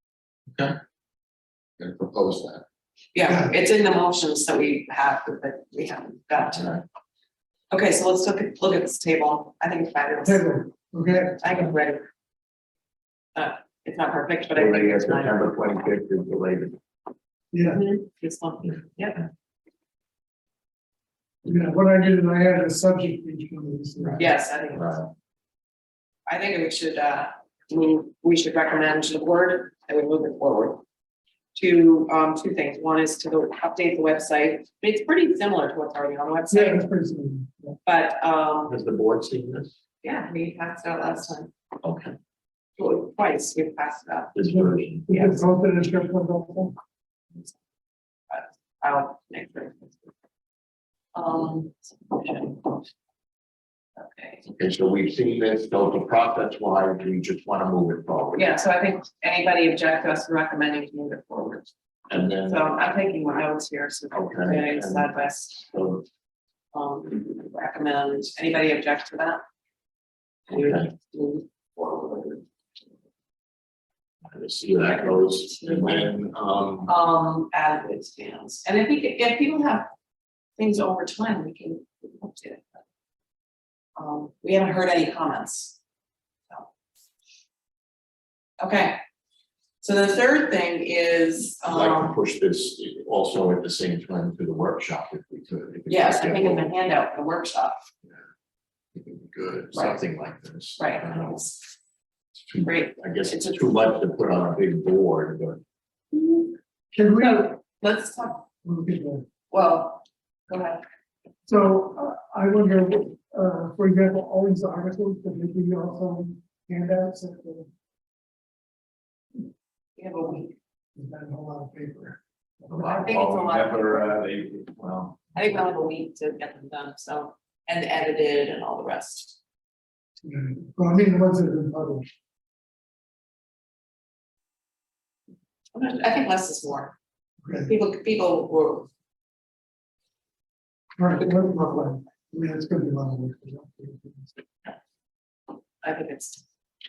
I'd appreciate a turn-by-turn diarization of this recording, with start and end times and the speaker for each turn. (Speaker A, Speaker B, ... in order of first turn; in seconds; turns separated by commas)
Speaker A: 1.8-2.6, Speaker B: 3.1-6.8, Speaker C: 3.2-3.5, Speaker A: 6.5-6.8, Speaker B: 7.7-10.5, Speaker C: 10.2-11.7, Speaker B: 11.4-12.1, Speaker B: 13.3-15.4, Speaker A: 14.5-16.8, Speaker C: 17.5-17.8, Speaker B: 17.6-19.3, Speaker C: 21.4-24.3, Speaker B: 24.1-25.0, Speaker A: 24.7-25.1, Speaker B: 26.3-30.8, Speaker B: 31.5-36.9, Speaker C: 36.5-37.8, Speaker B: 37.9-38.8, Speaker A: 38.7-39.7, Speaker B: 40.0-41.5, Speaker A: 41.8-42.1, Speaker B: 42.8-44.4, Speaker A: 44.3-45.1, Speaker C: 44.5-46.7, Speaker B: 45.1-45.4, Speaker B: 48.3-50.1, Speaker B: 51.1-52.8, Speaker B: 54.0-54.4, Speaker A: 54.5-58.5, Speaker B: 58.4-61.7, Speaker A: 62.1-62.6, Speaker B: 62.3-65.7, Speaker A: 64.1-65.1, Speaker A: 65.7-66.0, Speaker B: 66.7-69.4, Speaker B: 70.5-72.5, Speaker A: 70.5-70.9, Speaker A: 74.2-76.9, Speaker B: 74.9-76.1, Speaker B: 76.9-79.9, Speaker B: 80.6-82.8, Speaker B: 84.0-85.8, Speaker B: 88.6-89.0, Speaker B: 89.8-92.2, Speaker A: 91.7-96.7, Speaker B: 95.9-97.8, Speaker A: 98.9-101.5, Speaker B: 99.7-100.0, Speaker B: 100.8-101.6, Speaker A: 102.4-105.6, Speaker B: 102.6-103.7, Speaker B: 106.1-106.5, Speaker C: 106.9-107.5, Speaker B: 107.2-108.4, Speaker C: 108.6-109.2, Speaker B: 109.5-110.8, Speaker C: 111.5-117.7, Speaker B: 120.0-120.5, Speaker C: 121.0-122.7, Speaker A: 122.7-125.3, Speaker B: 122.8-124.1, Speaker B: 125.3-129.4, Speaker C: 130.2-132.1, Speaker B: 135.7-136.9, Speaker C: 137.4-137.7, Speaker B: 137.7-138.9, Speaker C: 141.0-144.3, Speaker B: 145.8-146.4